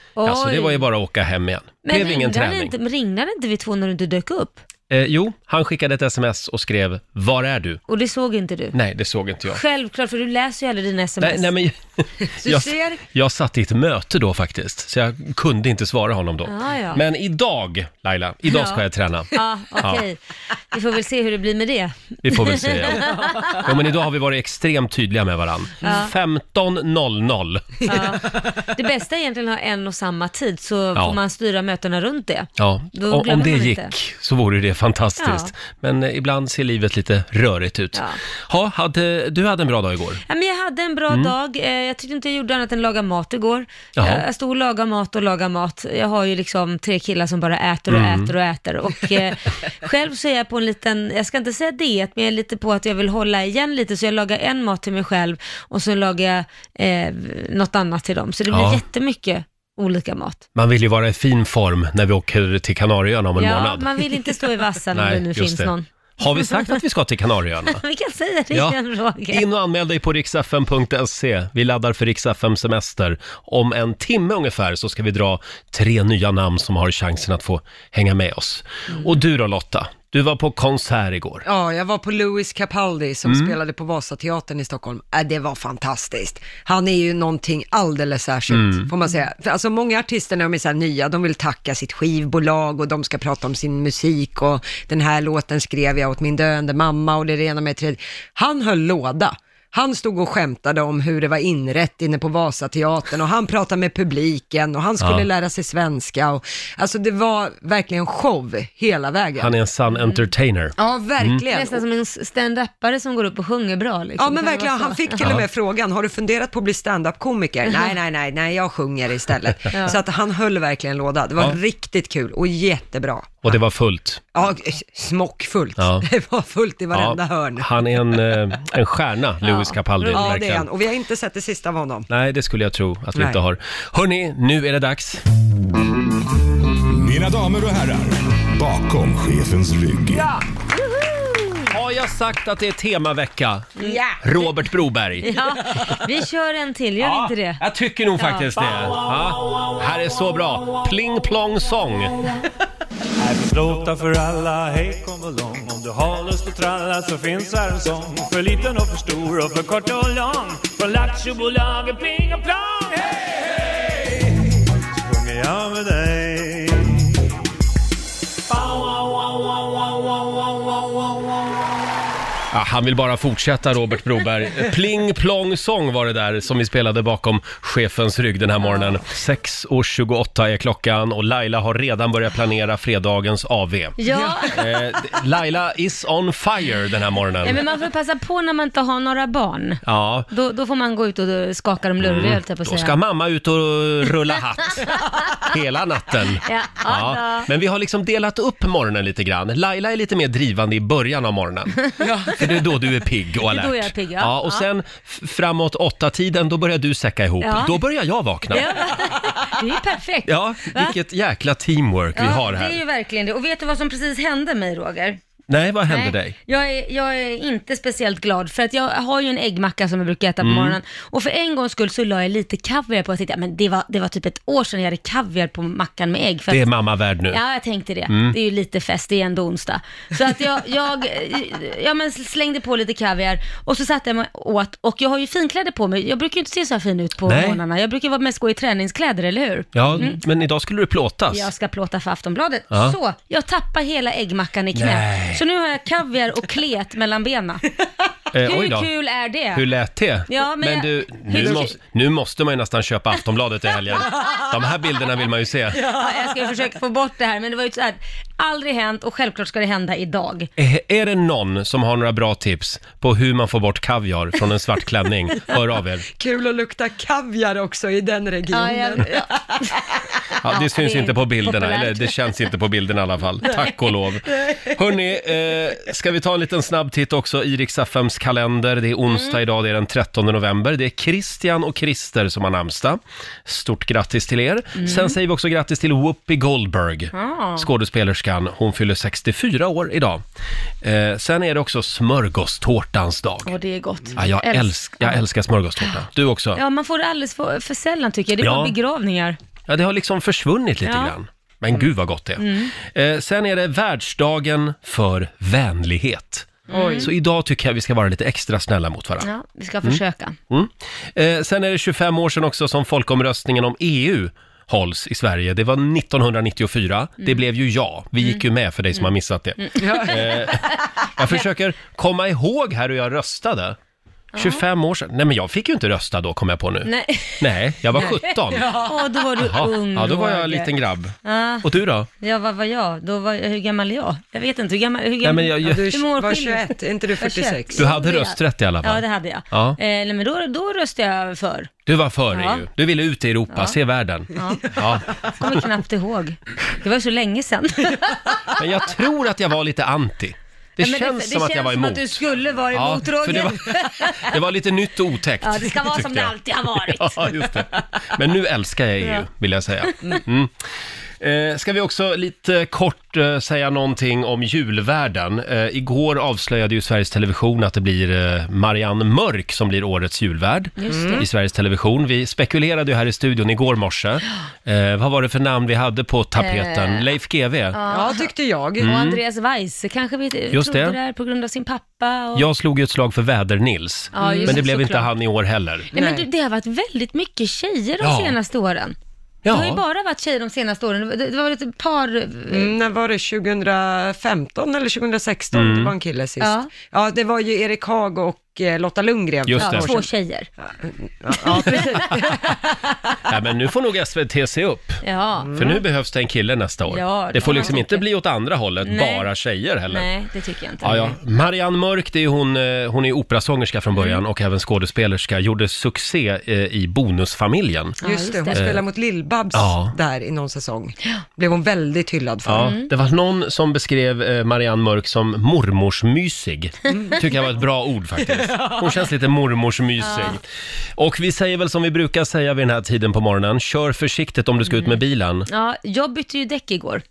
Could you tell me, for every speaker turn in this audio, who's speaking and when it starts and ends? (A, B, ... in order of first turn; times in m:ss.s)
0:00.2-0:00.9 A
0:00.2-0:02.7 B
0:01.8-0:04.6 A
0:04.9-0:07.8 B
0:07.9-0:08.8 A
0:08.7-0:09.6 B
0:09.5-0:11.5 A
0:11.2-0:20.0 B
0:12.4-0:13.0 C
0:16.4-0:17.0 A
0:18.5-0:20.2 A
0:20.7-0:23.7 A
0:22.2-0:27.8 B
0:25.8-0:26.1 A
0:27.8-0:33.9 A
0:32.6-0:40.2 B
0:35.2-0:35.5 A
0:37.9-0:38.2 A
0:40.3-1:00.4 A
0:41.1-0:41.3 B
0:44.0-0:44.2 B
0:47.9-0:48.3 B
0:58.5-0:58.8 B
1:00.5-1:03.9 B
1:03.4-1:06.7 A
1:04.9-1:07.8 B
1:07.7-1:09.4 A
1:08.5-1:08.8 B
1:09.3-1:21.4 B
1:21.4-1:49.5 C
1:23.2-1:23.5 B
1:28.5-1:28.9 B
1:45.0-1:45.3 B
1:49.4-1:51.4 B
1:49.9-1:50.2 A
1:50.8-1:51.8 C
1:51.5-1:55.2 A
1:54.2-2:03.5 C
1:55.2-1:55.4 B
1:59.7-2:00.0 A
2:03.4-2:04.2 B
2:04.3-2:07.8 C
2:05.8-2:06.0 B
2:06.9-2:10.7 B
2:09.4-2:10.2 A
2:10.1-2:12.1 C
2:12.1-2:15.2 B
2:13.1-2:13.4 C
2:16.9-2:20.3 D
2:20.1-2:20.4 B
2:20.9-2:21.5 A
2:21.7-2:25.3 B
2:23.8-2:24.2 A
2:25.2-2:27.6 A
2:27.0-2:32.2 B
2:28.2-2:28.6 A
2:33.2-2:44.3 E
2:45.0-2:47.1 E
2:48.6-2:50.1 E
2:52.5-3:07.6 B
2:58.6-2:59.0 A
3:04.0-3:04.6 A
3:04.1-3:04.4 C
3:07.4-3:13.0 A
3:09.8-3:10.3 B
3:12.0-3:21.8 B
3:14.9-3:15.4 A
3:16.4-3:17.5 A
3:22.0-3:22.3 C
3:22.3-3:28.7 B
3:23.4-3:24.6 A
3:27.4-3:27.8 A
3:28.5-3:30.9 A
3:30.2-3:32.8 B
3:32.1-3:35.2 A
3:35.5-3:36.4 B
3:35.9-3:46.7 A
3:40.4-3:40.8 B
3:46.5-3:47.4 B
3:47.3-4:00.2 A
3:48.1-3:48.4 B
3:57.3-3:57.6 B
3:59.7-4:01.5 B
4:01.3-4:07.7 A
4:02.7-4:03.0 B
4:04.7-4:05.4 B
4:08.3-4:08.9 B
4:08.4-4:09.6 A
4:09.5-4:15.9 B
4:10.3-4:11.7 A
4:11.3-4:11.6 C
4:15.8-4:20.5 A
4:20.6-4:26.1 B
4:26.2-4:30.0 C
4:28.5-4:29.9 A
4:30.4-4:50.2 B
4:30.4-4:32.2 A
4:39.1-4:39.4 A
4:44.8-4:45.2 A
4:47.1-4:47.7 A
4:50.8-4:53.5 B
4:53.4-4:55.2 A
4:54.2-4:56.6 B
4:56.5-4:59.4 A
4:58.4-4:58.7 B
4:59.7-5:09.3 B
5:00.8-5:01.1 A
5:02.4-5:02.7 A
5:06.7-5:07.1 A
5:06.7-5:07.1 C
5:09.2-5:10.4 A
5:09.8-5:23.8 B
5:19.6-5:20.6 A
5:19.8-5:20.2 C
5:24.3-5:24.6 A
5:24.4-5:28.6 B
5:26.8-5:28.1 A
5:28.0-5:29.3 C
5:28.6-5:30.7 A
5:29.4-5:32.1 B
5:31.2-5:31.7 A
5:32.2-5:41.7 A
5:35.2-5:36.0 B
5:35.6-5:37.9 C
5:37.8-5:39.8 B
5:41.8-5:45.1 B
5:42.3-5:42.6 A
5:44.3-5:48.5 A
5:48.5-5:52.2 B
5:50.8-5:54.4 A
5:52.7-6:00.5 B
5:55.4-5:57.5 A
5:59.8-6:00.2 A
6:01.2-6:17.8 B
6:10.8-6:11.2 A
6:10.9-6:11.2 C
6:16.4-6:17.1 A
6:17.7-6:18.3 A
6:17.9-6:19.1 C
6:18.8-6:19.2 B
6:18.8-6:22.4 A
6:20.5-6:21.0 B
6:22.3-6:25.9 B
6:24.1-6:25.1 A
6:24.2-6:24.6 C
6:25.9-6:26.3 C
6:25.9-6:29.0 A
6:28.0-6:28.4 B
6:29.4-6:29.8 B
6:29.5-6:32.7 A
6:32.5-6:40.1 C
6:35.5-6:35.9 B
6:36.4-6:36.7 A
6:39.5-6:39.9 B
6:39.6-6:40.5 A
6:40.8-6:42.6 C
6:41.4-6:42.2 A
6:41.7-6:42.1 B
6:43.3-6:45.0 B
6:45.0-6:45.8 A
6:45.4-6:45.8 C
6:45.5-6:50.1 B
6:46.9-6:48.1 A
6:48.8-6:49.3 A
6:49.9-6:51.1 A
6:50.8-6:58.0 B
6:54.0-6:54.2 A
6:58.0-6:58.7 A
6:58.0-7:02.7 C
6:58.5-6:58.8 B
6:59.5-6:59.9 B
7:02.4-7:10.4 B
7:02.6-7:02.9 A
7:06.9-7:07.2 C
7:10.0-7:10.4 A
7:11.0-7:15.5 B
7:14.6-7:17.0 A